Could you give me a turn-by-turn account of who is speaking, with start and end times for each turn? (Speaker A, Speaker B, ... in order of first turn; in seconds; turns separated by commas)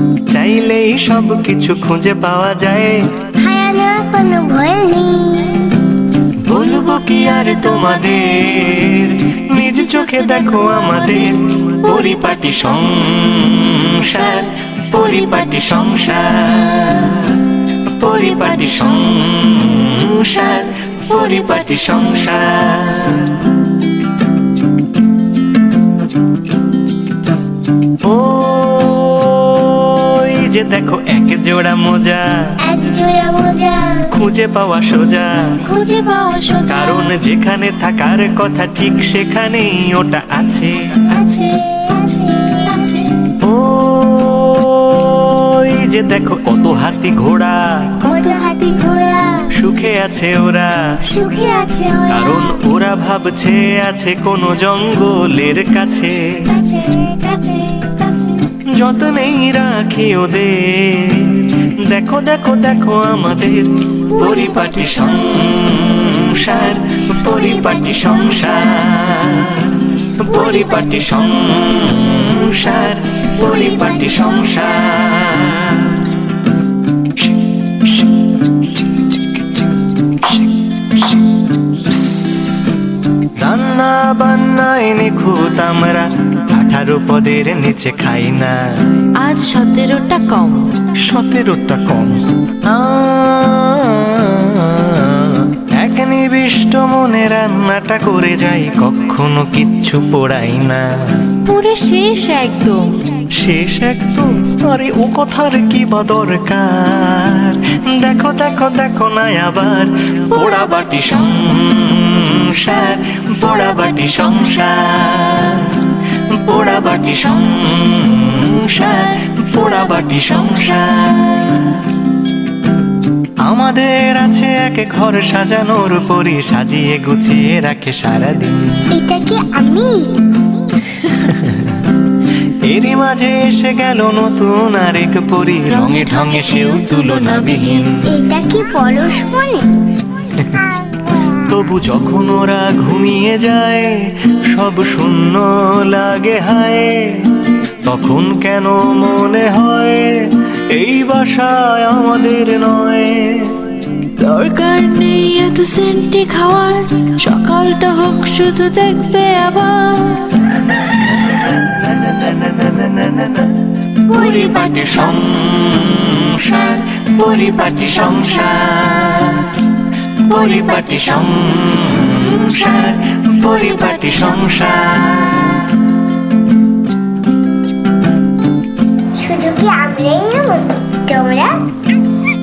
Speaker A: 0.3-3.0, Speaker B: 3.4-5.7, Speaker A: 6.5-23.5, Speaker C: 10.0-10.8, Speaker A: 28.0-32.6, Speaker B: 32.6-34.1, Speaker A: 34.1-35.6, Speaker C: 35.6-37.1, Speaker A: 36.7-41.0, Speaker B: 41.1-43.0, Speaker C: 42.6-43.1, Speaker A: 43.4-48.1, Speaker B: 48.0-49.5, Speaker C: 48.3-48.5, Speaker A: 49.5-51.0, Speaker B: 51.1-52.5, Speaker A: 52.1-56.2, Speaker C: 56.5-58.4, Speaker B: 56.8-57.7, Speaker A: 58.8-76.1, Speaker B: 64.1-65.6, Speaker B: 67.3-68.7, Speaker B: 73.4-75.3, Speaker A: 83.4-88.6, Speaker C: 89.2-90.7, Speaker A: 91.0-101.3, Speaker C: 101.5-103.1, Speaker A: 103.3-121.7, Speaker A: 123.4-128.9, Speaker B: 128.9-130.2, Speaker A: 131.1-131.8, Speaker A: 132.6-138.0, Speaker C: 135.7-138.0, Speaker B: 138.0-139.7, Speaker A: 141.4-147.2, Speaker A: 147.8-153.6, Speaker C: 154.2-160.4, Speaker A: 161.6-163.5, Speaker A: 164.1-169.7, Speaker A: 170.2-175.8, Speaker C: 173.8-174.3, Speaker B: 179.2-181.6